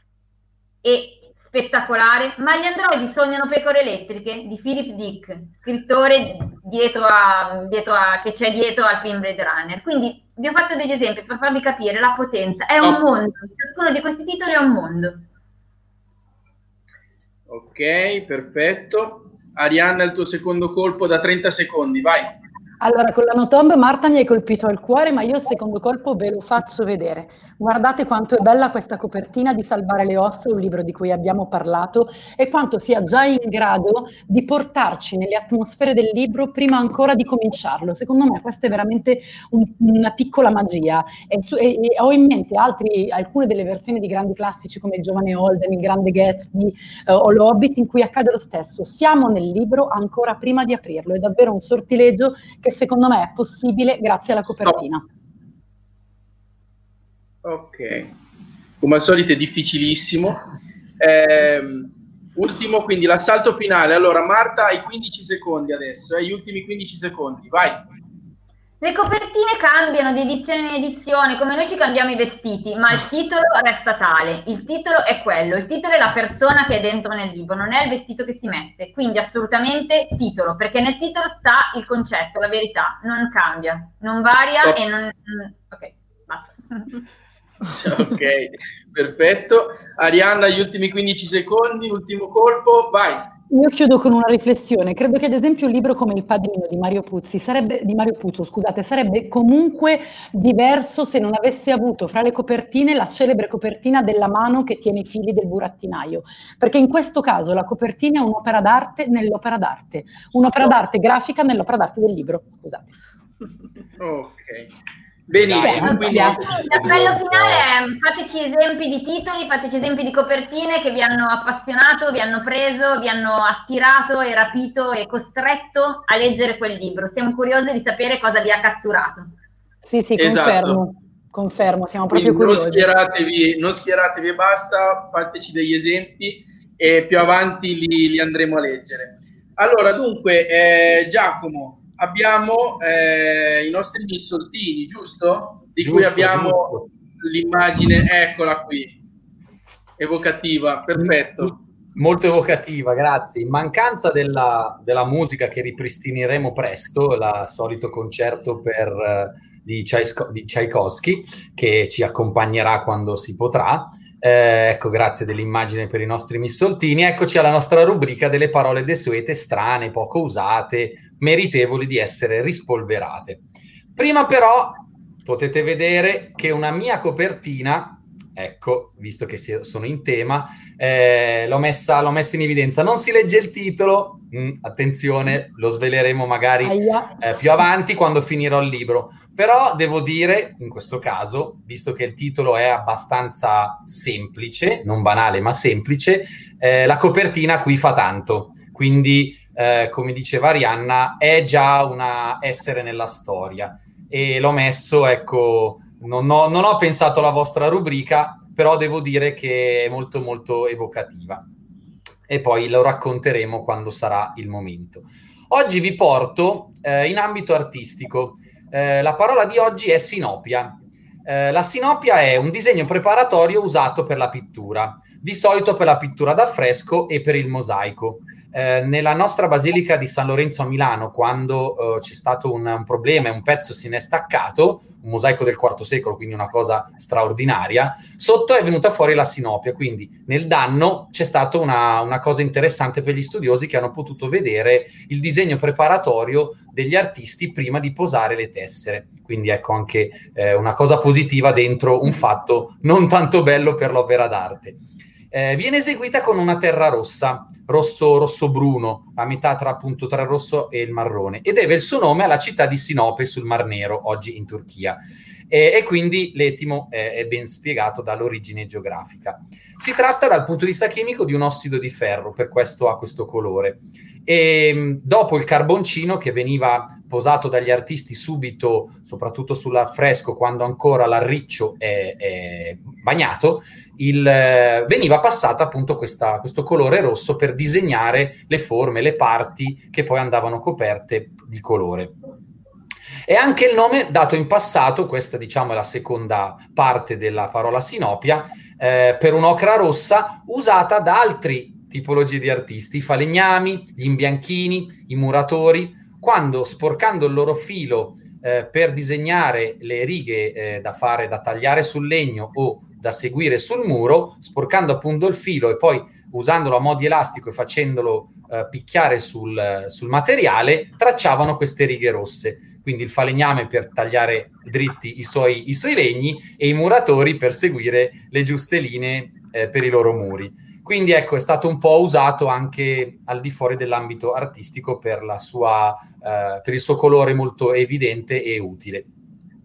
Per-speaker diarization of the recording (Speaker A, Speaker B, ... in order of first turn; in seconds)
Speaker A: 0.8-15.2, 68.8-87.0, 115.8-129.3
Speaker B: 17.5-22.4, 57.4-58.1, 58.8-60.4, 61.0-67.8, 87.7-93.3, 114.0-114.7, 115.3-117.1, 130.2-130.8, 132.1-149.0, 150.0-151.6
Speaker C: 22.8-55.0, 93.5-112.9, 115.6-116.4, 129.8-132.9, 186.6-187.2
Speaker D: 115.3-117.7, 145.8-146.9, 152.0-173.4, 174.0-211.4, 212.3-292.2, 293.3-339.1